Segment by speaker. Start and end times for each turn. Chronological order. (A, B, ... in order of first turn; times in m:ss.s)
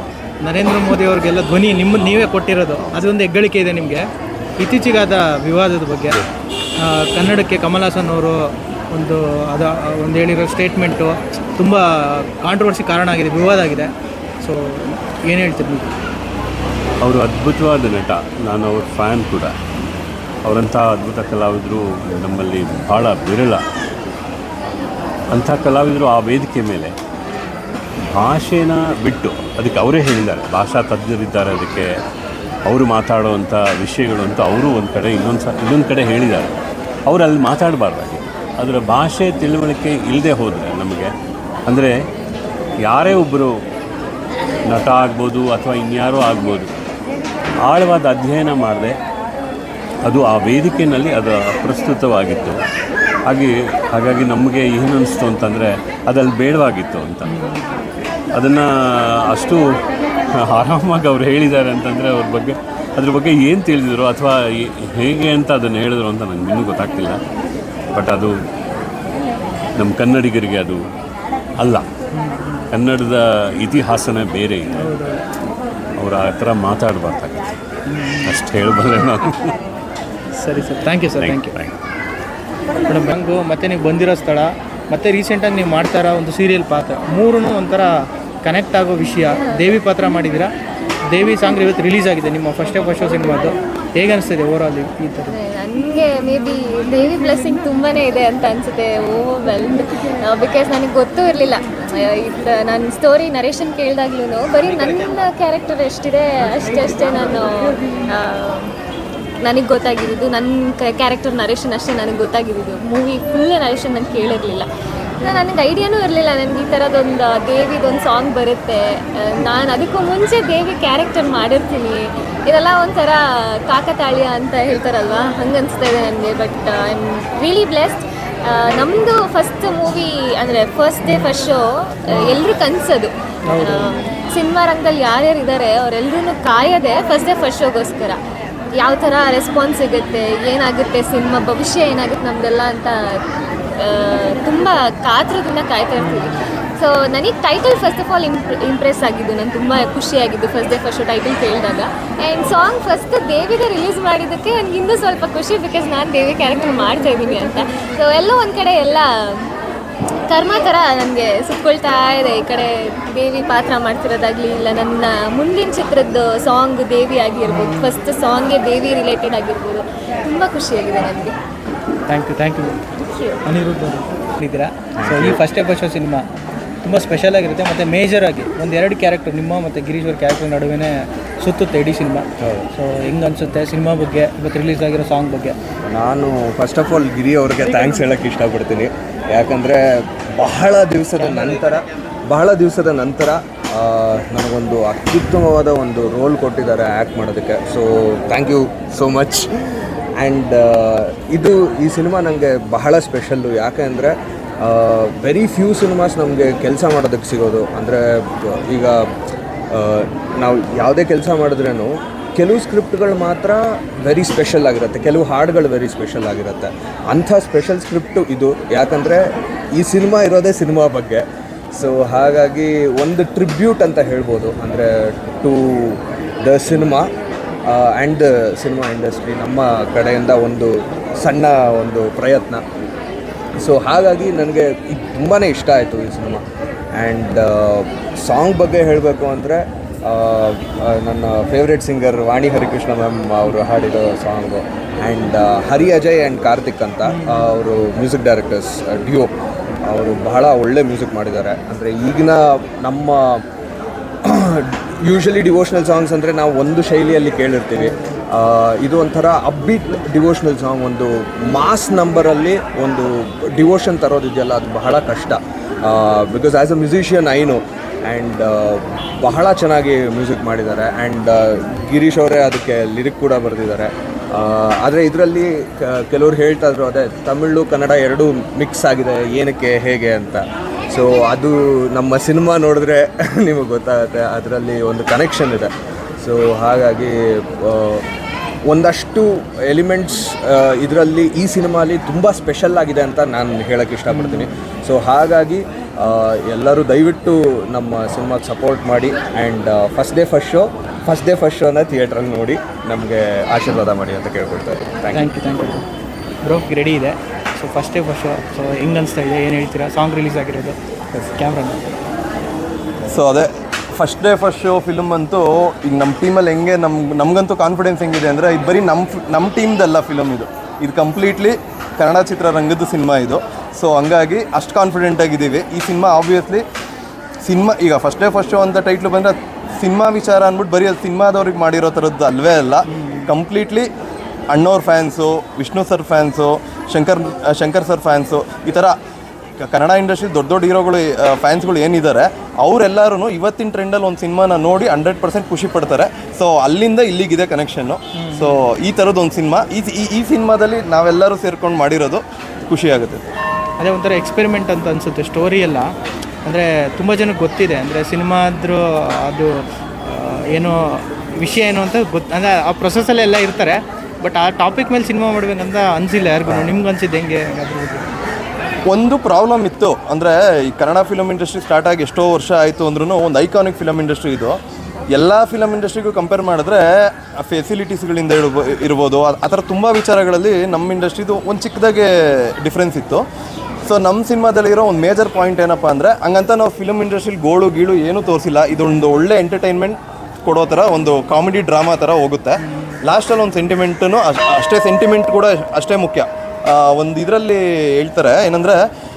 0:00.4-0:04.0 A
0:04.6-0:06.2 A
0:06.8-0:13.9 A
0:14.4-0:15.9 A
0:17.0-0:19.5 B
0:20.4-0:23.6 B
0:25.3-0:26.9 B
0:28.1-0:31.9 B
0:32.6-0:36.5 B
0:37.0-0:41.1 B
0:41.7-0:41.9 B
0:42.8-0:43.5 B
0:44.6-0:46.7 B
0:47.6-0:49.0 B
0:50.0-0:52.6 B
0:53.2-0:57.4 B
0:57.3-0:57.6 A
0:58.3-0:59.8 B
1:00.3-1:07.2 B
1:07.9-1:08.3 B
1:09.8-1:10.8 B
1:11.6-1:11.8 B
1:12.1-1:12.6 A
1:12.7-1:14.9 B
1:14.8-1:15.2 A
1:16.0-1:17.5 B
1:17.9-1:18.3 A
1:18.2-1:19.6 B
1:20.4-1:21.5 A
1:21.2-1:21.7 B
1:22.9-1:27.9 A
1:28.4-1:30.5 A
1:31.1-1:35.4 A
1:35.2-1:48.7 C
1:49.4-1:54.7 C
1:55.2-2:18.2 C
2:13.5-2:13.9 A
2:18.8-2:23.2 C
2:23.8-2:39.4 C
2:26.0-2:26.3 A
2:40.3-2:51.3 C
2:47.5-2:47.9 A
2:52.1-2:52.8 A
2:53.1-2:53.4 C
2:53.4-2:56.2 A
2:55.0-2:55.4 D
2:56.8-3:05.6 A
3:02.4-3:02.7 D
3:05.9-3:19.5 D
3:20.2-3:29.1 D
3:29.7-3:47.1 D
3:47.6-3:52.6 D
3:53.6-3:56.4 D
3:56.9-4:09.3 D
4:07.0-4:07.5 A
4:09.8-4:13.4 D
4:14.2-4:45.7 D
4:46.2-4:48.0 D
4:48.7-5:05.3 D
4:54.1-4:54.4 A
5:05.1-5:05.8 A
5:06.4-5:11.8 A
5:13.1-5:26.6 E
5:27.4-5:33.9 E
5:32.9-5:33.3 A
5:34.5-5:38.9 E
5:39.6-5:53.2 E
5:48.2-5:48.6 A
5:53.8-5:55.9 A
5:56.4-6:08.1 A
6:08.9-6:14.6 E
6:15.1-6:23.2 E
6:23.8-6:38.8 E